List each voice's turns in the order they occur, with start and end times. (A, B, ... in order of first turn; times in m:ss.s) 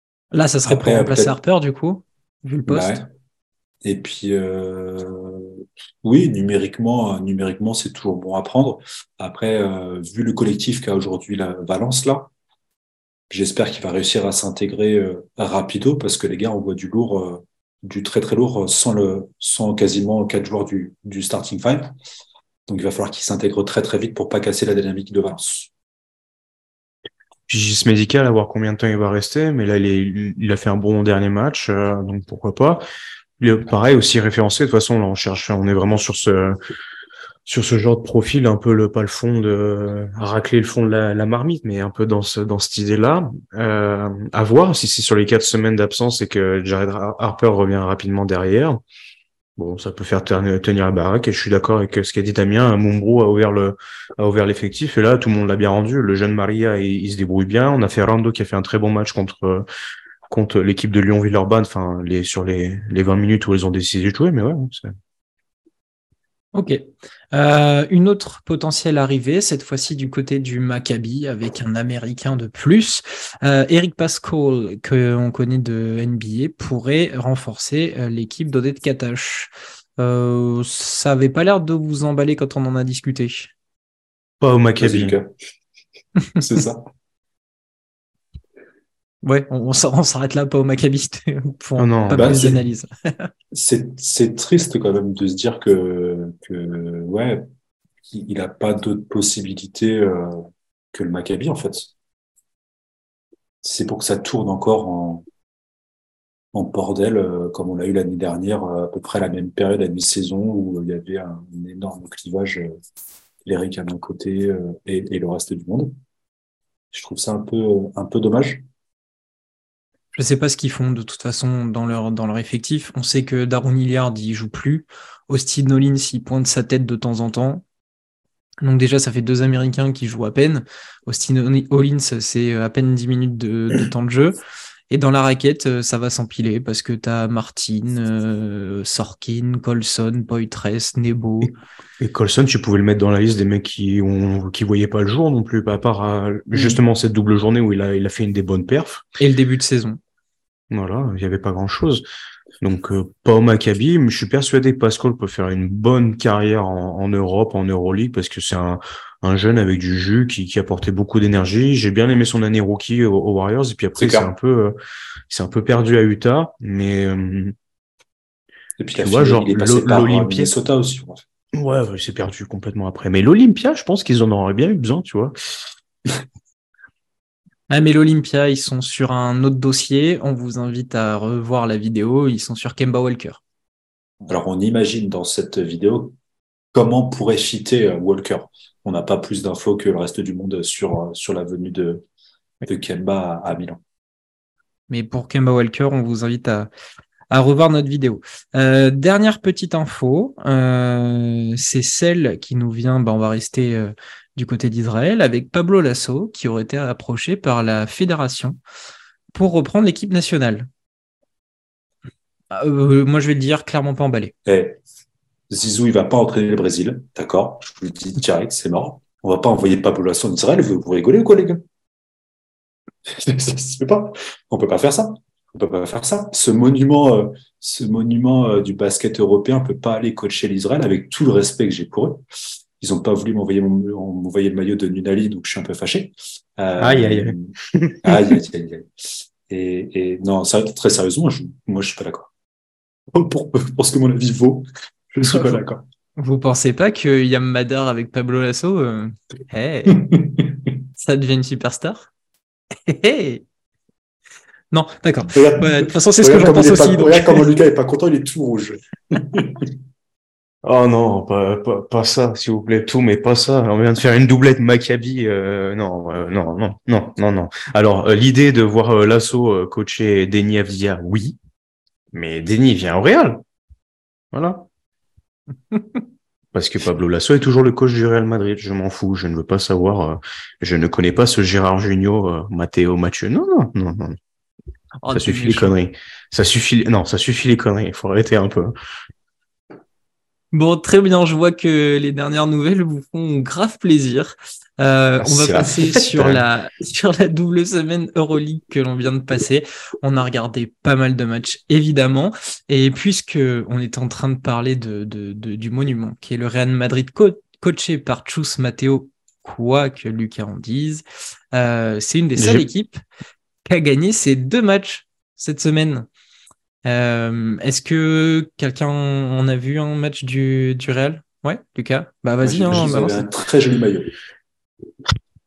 0:00.3-0:03.1 A
0:00.6-0:01.4 B
0:02.7-0:03.1 B
0:03.8-0:12.3 B
0:13.3-0:21.9 B
0:22.7-0:25.7 B
0:27.5-0:32.8 C
0:33.4-0:36.6 C
0:37.5-0:48.8 C
0:49.6-0:59.6 C
1:00.3-1:04.9 C
1:06.5-1:23.5 A
1:24.4-1:25.2 C
1:24.8-1:25.3 B
1:26.4-1:26.8 B
1:29.2-1:33.3 A
1:31.8-1:32.5 C
1:32.1-1:32.6 B
1:33.5-1:37.5 B
1:38.1-1:41.9 B
1:43.6-1:45.2 B
1:46.5-1:52.8 B
1:53.5-1:55.9 B
1:56.9-1:58.6 B
2:00.1-2:07.6 A
2:08.6-2:14.4 A
2:14.9-2:21.6 A
2:22.0-2:29.0 C
2:26.5-2:26.8 A
2:29.2-2:30.0 A
2:30.7-2:32.0 C
2:32.6-2:44.8 C
2:44.0-2:44.3 B
2:45.3-2:47.6 C
2:48.8-2:51.2 B
2:49.0-2:50.5 C
2:51.5-2:55.4 C
2:57.7-3:03.4 A
3:04.3-3:06.2 B
3:06.7-3:12.0 B
3:12.7-3:13.8 B
3:14.9-3:16.7 A
3:17.3-3:28.6 A
3:29.3-3:30.7 A
3:32.5-3:34.3 A
3:34.5-3:34.8 B
3:35.5-3:41.6 B
3:43.1-3:52.2 B
3:52.8-3:58.9 B
3:56.8-3:58.4 C
3:59.5-4:02.3 B
4:03.1-4:05.8 B
4:05.2-4:05.6 A
4:06.2-4:10.0 A
4:09.9-4:10.6 B
4:11.0-4:12.1 A
4:12.9-4:13.4 A
4:14.7-4:17.5 A
4:15.4-4:19.7 B
4:20.6-4:31.4 C
4:32.1-4:33.4 C
4:34.3-4:34.7 C
4:36.5-4:44.2 C
4:45.0-4:45.8 A
4:45.1-4:48.7 C
4:50.5-5:13.0 A
4:55.2-4:56.4 C
5:12.4-5:12.7 C
5:13.6-5:16.1 A
5:16.8-5:23.3 A
5:22.4-5:24.1 B